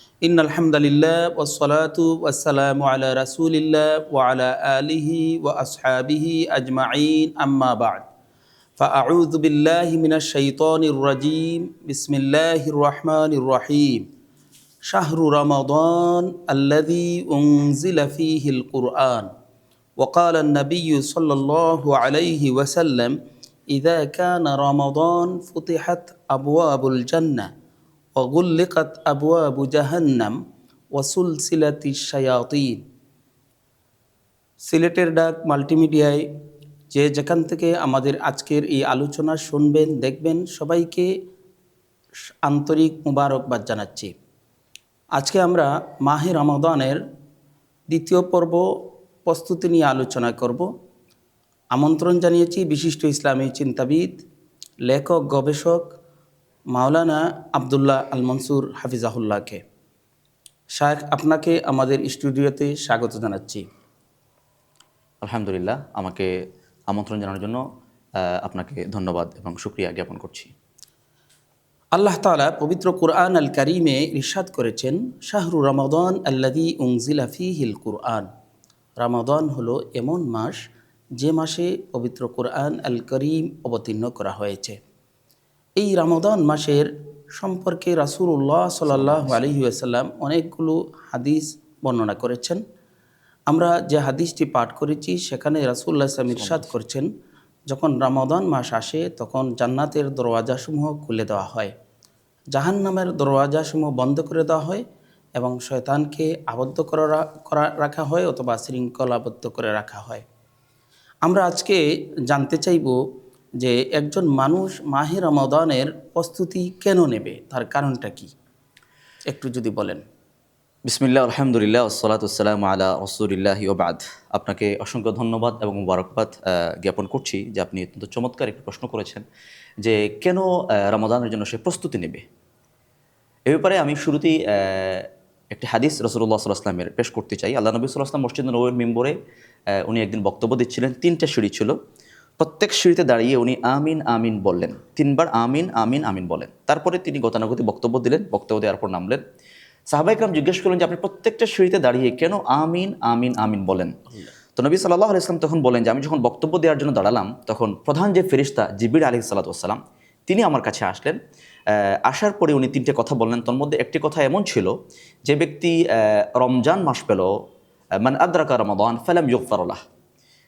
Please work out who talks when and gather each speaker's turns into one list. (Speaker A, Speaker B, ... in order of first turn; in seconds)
Speaker A: 0.2-8.0, 8.8-14.1, 14.9-19.3, 20.0-23.1, 23.7-27.5, 28.1-30.4, 30.9-32.8, 34.6-36.2, 36.9-41.1, 42.4-44.1, 45.2-47.0, 47.9-48.6, 49.2-50.6, 51.7-54.1, 54.9-55.9, 56.7-59.6, 60.8-63.6, 71.9-78.3, 79.0-80.6, 81.2-84.8, 85.8-92.6, 93.5-97.1, 97.7-101.7, 102.5-104.8, 105.4-110.2, 111.2-113.0, 113.6-118.3, 119.3-120.0
Speaker B: 65.2-66.3, 66.9-67.6, 68.2-70.5, 88.9-89.5, 96.3-96.7, 120.9-129.2, 129.8-132.2, 133.5-139.1, 139.8-141.7, 142.4-149.2, 149.9-153.9, 154.6-161.2, 161.7-164.7, 165.2-167.3, 168.0-169.8